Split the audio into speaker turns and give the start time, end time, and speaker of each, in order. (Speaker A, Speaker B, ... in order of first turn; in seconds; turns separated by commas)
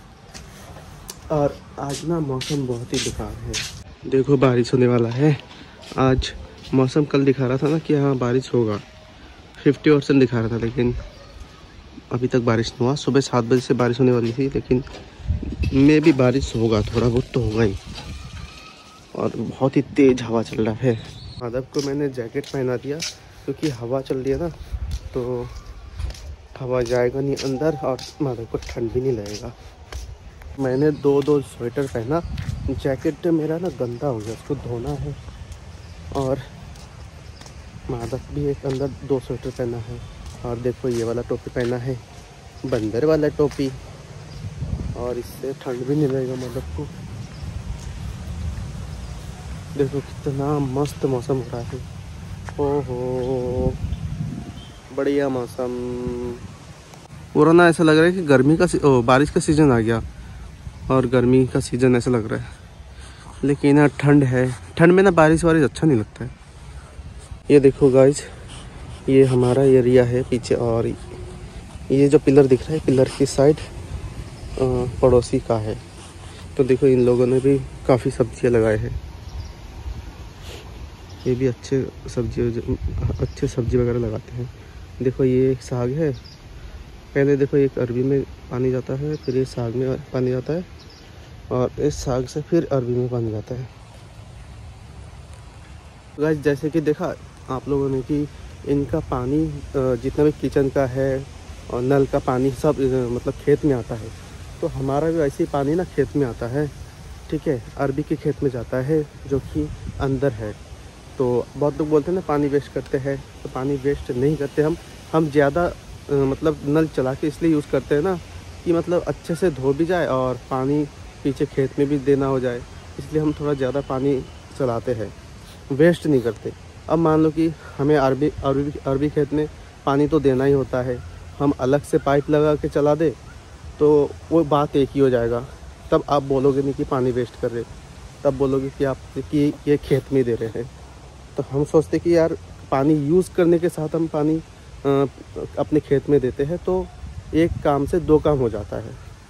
Speaker A: 1.3-5.4, Speaker A: 6.0-8.8, Speaker A: 9.6-10.9, Speaker A: 12.1-14.8, Speaker A: 15.7-17.8, Speaker A: 19.1-24.5, Speaker A: 25.1-25.5, Speaker A: 26.6-29.5, Speaker A: 30.6-35.2, Speaker A: 36.1-36.4, Speaker A: 37.9-42.0, Speaker A: 42.6-43.8, Speaker A: 44.9-46.9, Speaker A: 49.7-51.9, Speaker A: 52.6-53.8, Speaker A: 54.9-56.4, Speaker A: 57.3-60.0, Speaker A: 60.9-62.5, Speaker A: 63.4-66.3, Speaker A: 67.5-68.3, Speaker A: 69.1-71.0, Speaker A: 71.9-73.6, Speaker A: 74.6-75.8, Speaker A: 76.5-79.0, Speaker A: 81.2-86.2, Speaker A: 87.1-90.7, Speaker A: 91.5-93.7, Speaker A: 96.2-106.7, Speaker A: 107.3-110.6, Speaker A: 111.2-125.1, Speaker A: 125.7-133.2, Speaker A: 133.8-137.7, Speaker A: 138.2-140.7, Speaker A: 141.3-149.0